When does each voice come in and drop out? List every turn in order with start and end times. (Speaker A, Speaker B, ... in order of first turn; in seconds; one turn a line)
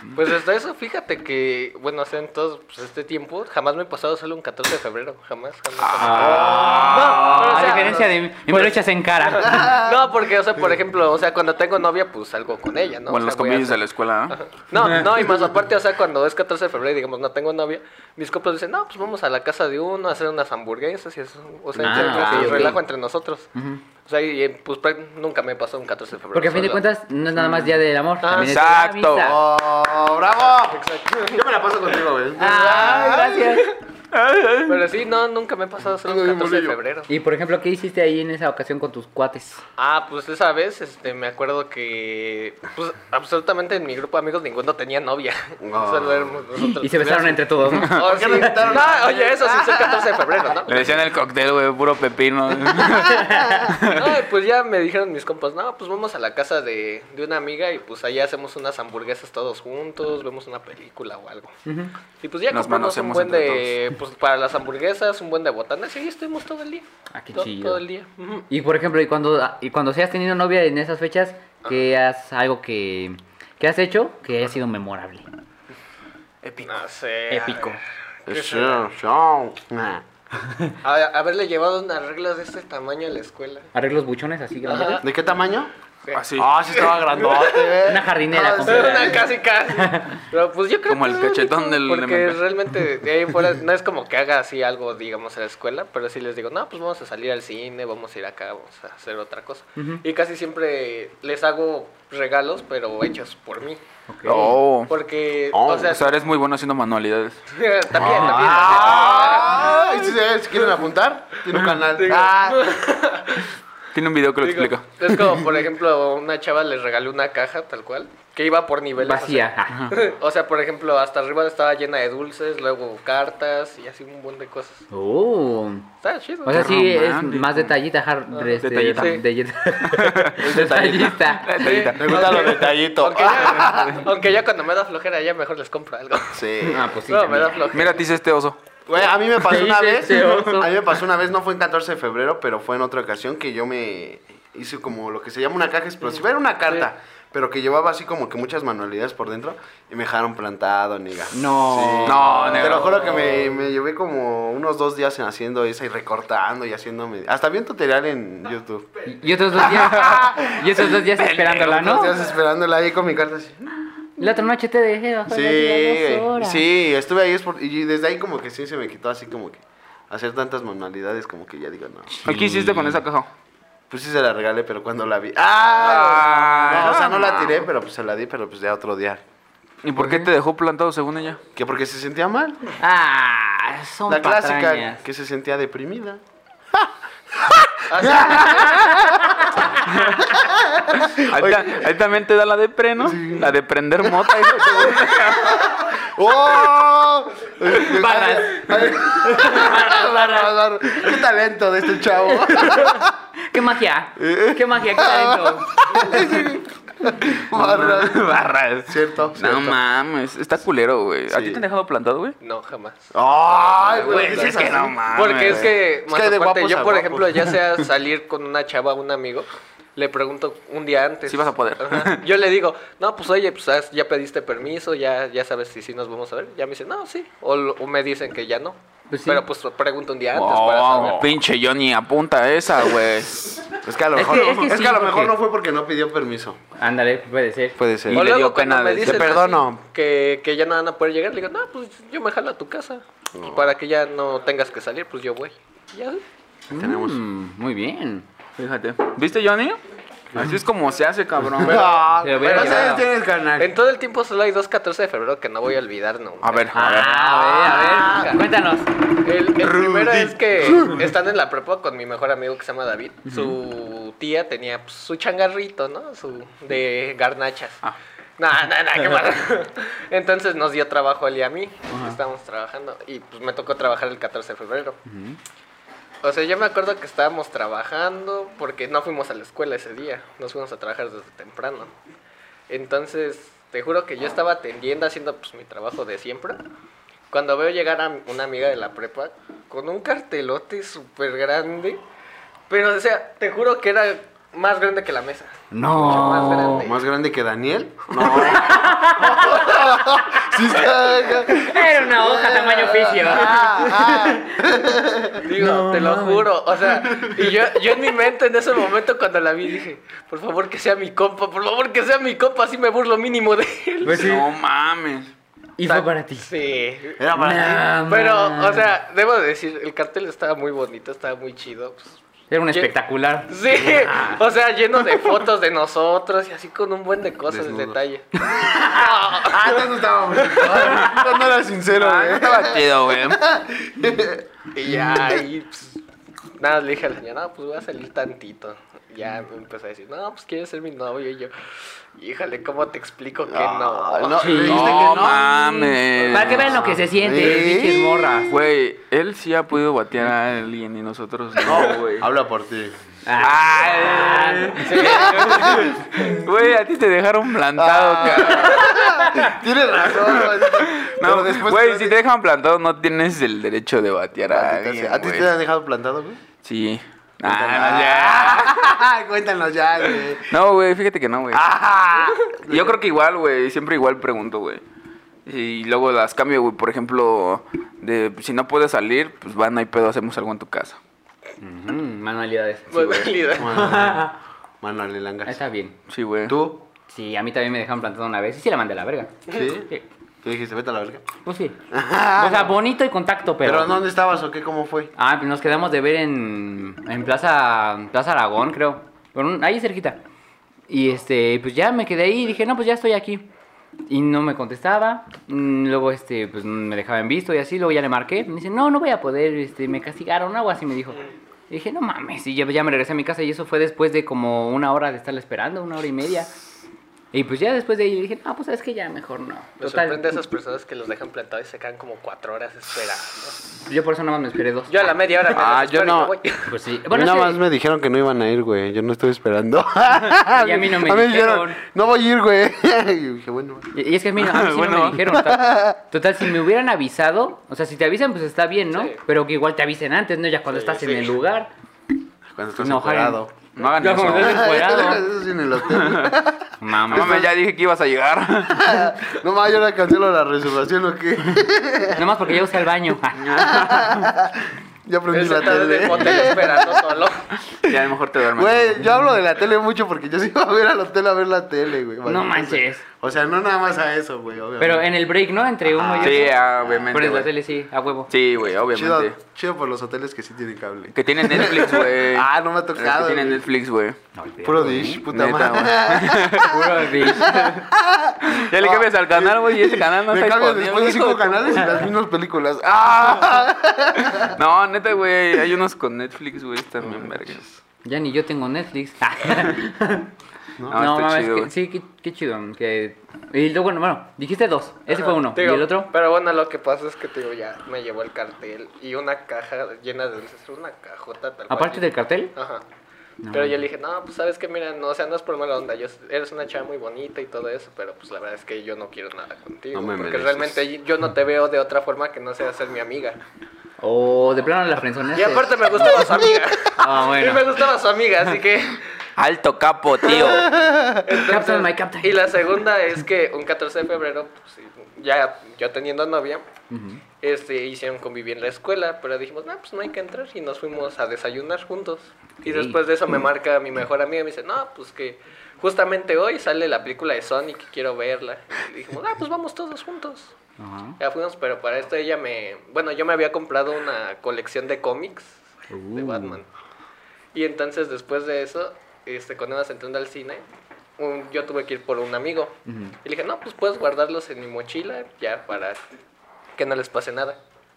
Speaker A: 0.1-23.5
Speaker B: 5.8-7.3
Speaker C: 6.0-9.8
Speaker D: 6.1-8.0
Speaker D: 9.5-9.9
Speaker B: 13.1-14.4
Speaker D: 21.7-22.8
Speaker C: 21.8-22.8
Speaker C: 23.5-23.8
Speaker A: 24.0-26.8
Speaker C: 26.3-29.4
Speaker D: 27.4-27.7
Speaker A: 28.2-28.6
Speaker B: 28.3-29.4
Speaker D: 29.2-33.6
Speaker A: 30.6-31.4
Speaker C: 32.4-33.7
Speaker B: 34.1-34.9
Speaker A: 34.6-37.1
Speaker D: 36.0-36.8
Speaker C: 37.1-39.6
Speaker A: 39.8-51.0
Speaker D: 45.6-46.4
Speaker C: 46.6-48.5
Speaker D: 47.7-50.2
Speaker B: 50.7-54.1
Speaker C: 53.1-53.7
Speaker D: 53.2-53.7
Speaker A: 53.9-61.5
Speaker C: 61.6-61.9
Speaker A: 62.2-68.5
Speaker B: 62.5-63.8
Speaker C: 67.1-67.8
Speaker C: 68.5-75.2
Speaker A: 76.6-78.8
Speaker C: 77.3-77.8
Speaker D: 78.2-80.0
Speaker A: 80.8-83.7
Speaker C: 83.7-85.0
Speaker A: 84.6-85.0
Speaker D: 85.0-85.7
Speaker B: 86.1-86.7
Speaker D: 86.3-89.3
Speaker A: 86.7-87.7
Speaker C: 87.8-90.2
Speaker A: 88.6-103.8
Speaker B: 90.9-92.5
Speaker C: 99.8-100.0
Speaker C: 104.1-104.6
Speaker B: 104.2-104.9
Speaker A: 104.9-106.1
Speaker D: 105.5-105.9
Speaker B: 105.8-107.4
Speaker A: 107.5-109.8
Speaker C: 108.0-108.7
Speaker D: 108.1-112.7
Speaker B: 108.6-109.9
Speaker A: 111.9-113.5
Speaker B: 113.9-114.9
Speaker A: 114.4-124.8
Speaker C: 119.0-119.8
Speaker C: 124.9-125.9
Speaker A: 126.0-126.7
Speaker C: 126.4-132.2
Speaker B: 126.5-127.8
Speaker A: 128.3-129.2
Speaker B: 128.6-129.2
Speaker B: 129.8-132.8
Speaker D: 131.7-134.1
Speaker A: 131.7-136.4
Speaker D: 136.3-136.9
Speaker C: 136.6-137.6
Speaker A: 137.0-138.0
Speaker B: 137.7-138.6
Speaker D: 138.9-158.9
Speaker C: 139.4-140.7
Speaker C: 151.3-153.4
Speaker B: 152.0-153.3
Speaker C: 159.1-162.2
Speaker B: 159.6-162.0
Speaker D: 159.7-160.3
Speaker D: 161.6-163.7
Speaker C: 164.2-166.6
Speaker D: 165.3-172.2
Speaker C: 172.1-173.0
Speaker B: 172.2-173.3
Speaker D: 173.9-179.2
Speaker B: 175.7-177.6
Speaker B: 179.8-181.4
Speaker C: 180.0-180.3
Speaker D: 181.5-182.7
Speaker C: 182.8-185.0
Speaker D: 184.1-186.2
Speaker D: 187.4-189.5
Speaker A: 187.9-188.8
Speaker C: 188.8-189.5
Speaker B: 189.9-190.2
Speaker D: 190.2-191.8
Speaker B: 191.1-195.7
Speaker D: 193.0-203.1
Speaker C: 197.8-200.5
Speaker C: 202.4-206.1
Speaker D: 204.2-209.8
Speaker B: 207.2-212.3
Speaker D: 211.3-211.6
Speaker A: 212.4-231.3
Speaker D: 213.1-215.0
Speaker B: 213.9-215.8
Speaker D: 215.6-217.6
Speaker B: 221.3-222.2
Speaker C: 229.1-229.4
Speaker B: 230.3-233.6
Speaker D: 233.7-236.6
Speaker C: 234.1-235.3
Speaker C: 236.8-237.8
Speaker D: 237.8-238.3
Speaker B: 238.1-239.4
Speaker A: 238.1-246.2
Speaker D: 239.0-239.8
Speaker D: 243.3-243.7
Speaker C: 246.7-248.2
Speaker D: 246.7-247.2
Speaker B: 248.6-249.8
Speaker B: 250.3-252.0
Speaker D: 251.5-253.7
Speaker A: 251.6-258.4
Speaker C: 252.2-253.1
Speaker B: 256.4-257.1
Speaker C: 256.7-258.9
Speaker D: 257.6-258.3
Speaker A: 259.2-267.8
Speaker C: 263.2-263.5
Speaker A: 268.4-275.0
Speaker C: 271.9-272.2
Speaker C: 275.0-275.4
Speaker A: 276.2-281.9
Speaker A: 282.7-286.6
Speaker A: 287.3-292.0
Speaker A: 292.7-297.0
Speaker C: 295.7-296.9
Speaker D: 296.7-305.4
Speaker C: 298.2-299.8
Speaker C: 301.5-304.6
Speaker A: 305.4-314.3
Speaker C: 305.5-306.5
Speaker C: 314.0-314.4
Speaker B: 314.1-315.3
Speaker C: 315.8-316.5
Speaker A: 315.8-317.2
Speaker D: 317.2-317.9
Speaker C: 317.3-318.9
Speaker A: 318.0-322.2
Speaker C: 322.5-323.5
Speaker A: 323.5-328.3
Speaker D: 323.9-324.4
Speaker D: 327.5-335.4
Speaker A: 328.8-329.9
Speaker A: 330.4-330.7
Speaker B: 330.7-331.3
Speaker B: 331.9-333.4
Speaker A: 334.7-336.0
Speaker A: 336.6-344.7
Speaker D: 343.5-345.8
Speaker C: 344.3-345.0
Speaker B: 344.5-346.9
Speaker C: 345.9-348.5
Speaker D: 346.3-348.5
Speaker B: 348.5-352.3
Speaker D: 351.6-352.9
Speaker C: 353.2-355.9
Speaker B: 353.4-359.5
Speaker A: 354.8-355.8
Speaker D: 355.0-356.4
Speaker D: 357.7-362.2
Speaker B: 360.1-365.5
Speaker D: 364.5-366.4
Speaker B: 366.6-368.7
Speaker D: 367.4-370.6
Speaker B: 370.4-371.6
Speaker D: 371.5-373.0
Speaker B: 372.7-374.8
Speaker B: 375.4-381.0
Speaker C: 381.6-384.3
Speaker A: 382.9-383.8
Speaker D: 383.6-385.6
Speaker C: 385.4-385.9
Speaker B: 386.1-386.6
Speaker D: 386.5-386.8
Speaker C: 387.1-390.0
Speaker D: 389.5-389.9
Speaker D: 390.4-391.2
Speaker C: 391.4-391.8
Speaker D: 391.9-392.7
Speaker C: 392.3-394.0
Speaker D: 393.6-395.1
Speaker C: 395.1-400.2
Speaker C: 400.9-403.5
Speaker C: 404.1-416.5
Speaker C: 417.3-420.4
Speaker A: 419.8-423.7
Speaker C: 423.8-425.2
Speaker A: 424.9-426.7
Speaker D: 425.5-426.4
Speaker C: 426.7-427.6
Speaker D: 427.1-433.9
Speaker C: 430.5-431.8
Speaker C: 433.9-441.7
Speaker B: 434.4-435.4
Speaker D: 435.2-436.0
Speaker A: 438.9-439.2
Speaker A: 440.7-441.4
Speaker D: 442.5-443.5
Speaker C: 442.8-443.4
Speaker B: 443.8-444.8
Speaker C: 443.9-445.2
Speaker D: 444.1-447.5
Speaker B: 445.8-446.4
Speaker C: 446.8-447.5
Speaker B: 447.1-449.1
Speaker D: 448.7-452.5
Speaker C: 452.1-453.7
Speaker B: 453.3-454.3
Speaker D: 453.5-457.1
Speaker A: 455.3-457.5
Speaker B: 457.8-459.1
Speaker D: 457.8-465.1
Speaker C: 462.2-463.0
Speaker C: 464.8-468.3
Speaker D: 465.9-466.6
Speaker B: 466.2-467.6
Speaker B: 468.3-469.4
Speaker D: 468.9-473.6
Speaker B: 471.1-474.2
Speaker C: 474.3-475.2
Speaker D: 474.6-484.6
Speaker B: 475.3-477.6
Speaker C: 476.6-477.8
Speaker B: 478.4-482.0
Speaker B: 484.3-487.6
Speaker D: 487.0-487.7
Speaker C: 488.0-490.3
Speaker B: 490.9-491.7
Speaker C: 490.9-496.1
Speaker A: 495.1-502.8
Speaker C: 501.7-502.5
Speaker C: 503.4-503.8
Speaker A: 503.5-513.4
Speaker D: 509.9-510.8
Speaker C: 514.0-517.7
Speaker A: 515.3-519.0
Speaker B: 519.4-520.8
Speaker D: 520.3-521.2
Speaker A: 521.2-526.7
Speaker C: 521.3-522.4
Speaker C: 526.9-527.2
Speaker A: 527.4-540.5
Speaker C: 532.6-533.0
Speaker C: 540.8-541.1
Speaker A: 541.2-545.6
Speaker C: 545.9-546.6
Speaker A: 546.1-546.7
Speaker A: 547.5-550.6
Speaker A: 551.2-556.0
Speaker C: 552.9-553.1
Speaker A: 556.8-557.6